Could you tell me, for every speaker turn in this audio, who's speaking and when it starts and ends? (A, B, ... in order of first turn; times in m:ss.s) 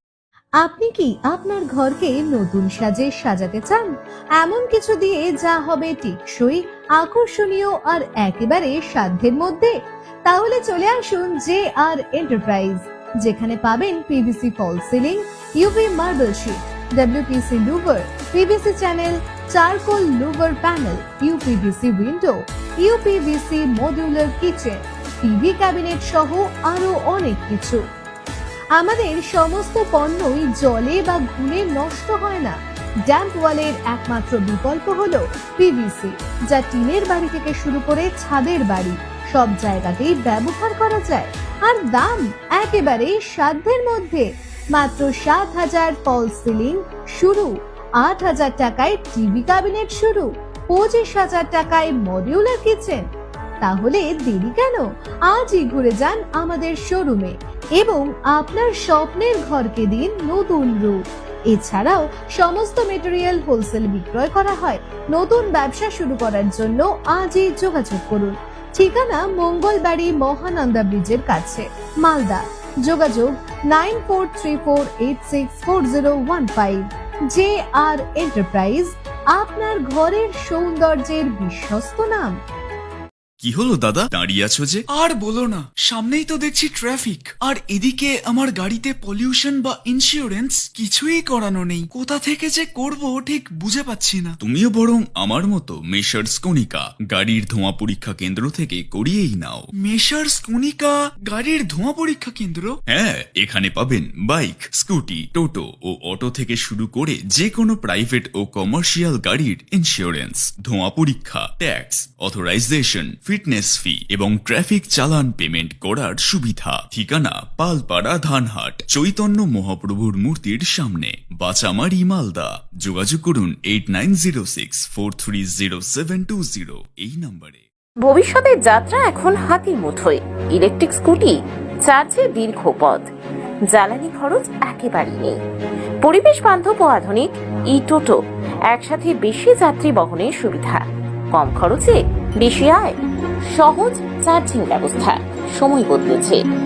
0:00.6-0:27.8 A
0:28.8-0:53.1 A
0:53.6-1:22.4 A
1:23.4-1:24.8 B
1:24.9-1:34.4 C
1:34.4-1:39.7 B
1:39.8-1:42.8 C
1:42.9-2:07.6 B
2:08.0-2:13.1 D
2:13.7-2:15.4 D
2:16.0-2:18.2 D
2:18.7-2:26.4 D